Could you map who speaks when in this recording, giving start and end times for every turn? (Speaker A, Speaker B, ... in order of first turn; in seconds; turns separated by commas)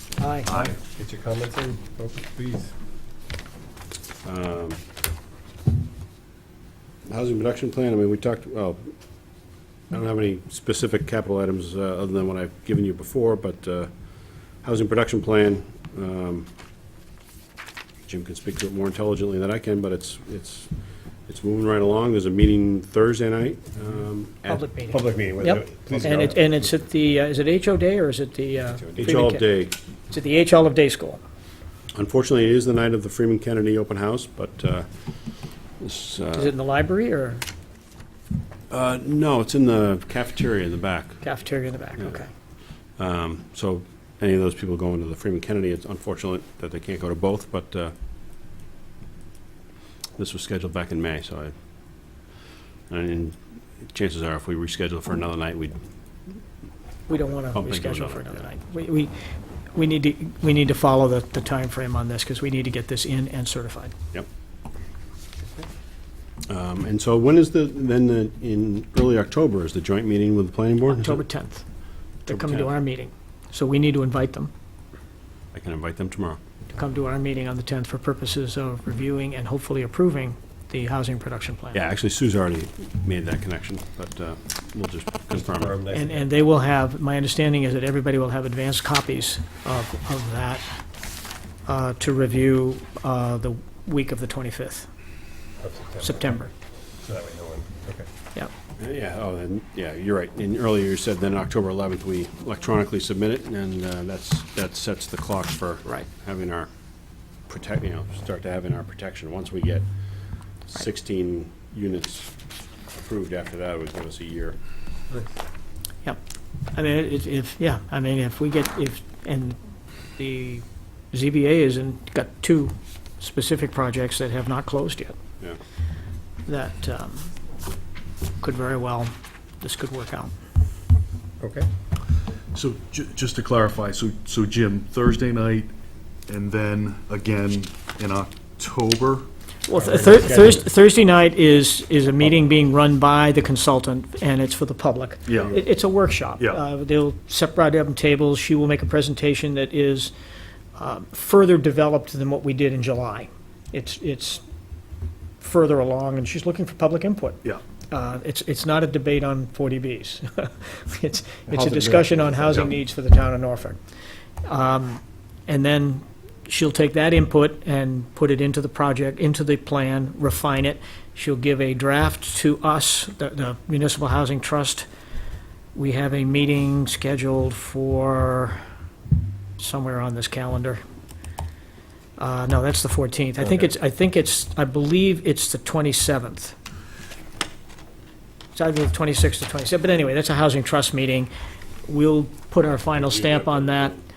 Speaker A: 0.2-0.5, Speaker B: 0.5-2.7, Speaker C: 4.2-4.8, Speaker C: 7.1-8.8, Speaker C: 9.9-13.9, Speaker C: 14.6-16.5, Speaker C: 18.1-20.7, Speaker C: 21.3-24.7, Speaker A: 24.5-29.5, Speaker B: 24.9-26.7, Speaker C: 25.9-26.2, Speaker B: 28.8-29.1, Speaker C: 29.0-29.7, Speaker A: 30.1-31.2, Speaker C: 31.9-34.9, Speaker C: 35.8-36.5, Speaker A: 36.4-37.4, Speaker C: 38.7-41.4, Speaker A: 41.2-42.3, Speaker C: 42.9-47.9, Speaker C: 50.2-52.2, Speaker C: 52.9-55.8, Speaker A: 57.1-59.1, Speaker C: 57.5-58.5, Speaker A: 59.7-63.9, Speaker C: 66.5-71.2, Speaker A: 70.9-71.7, Speaker A: 72.3-74.5, Speaker C: 72.3-72.8, Speaker C: 75.5-76.4, Speaker A: 76.7-81.8, Speaker C: 81.7-85.8, Speaker B: 85.3-86.3, Speaker A: 85.9-90.7, Speaker A: 91.7-94.9, Speaker B: 95.6-96.2, Speaker A: 96.0-96.5, Speaker B: 97.0-98.1, Speaker C: 98.8-106.7, Speaker C: 107.5-109.9, Speaker C: 110.7-114.6, Speaker A: 116.7-119.6, Speaker A: 120.2-125.2, Speaker A: 126.5-127.3, Speaker A: 128.4-130.3, Speaker B: 131.4-131.7, Speaker D: 132.5-135.7, Speaker D: 136.3-139.3, Speaker A: 139.7-150.1, Speaker C: 139.7-140.6, Speaker D: 145.3-145.6, Speaker A: 150.8-154.4, Speaker A: 155.4-157.4, Speaker A: 157.9-163.8, Speaker C: 161.5-162.5, Speaker A: 164.4-174.9, Speaker A: 175.8-178.7, Speaker A: 179.6-180.8, Speaker A: 182.2-186.6, Speaker A: 188.5-191.3, Speaker A: 191.9-194.0, Speaker C: 192.9-194.0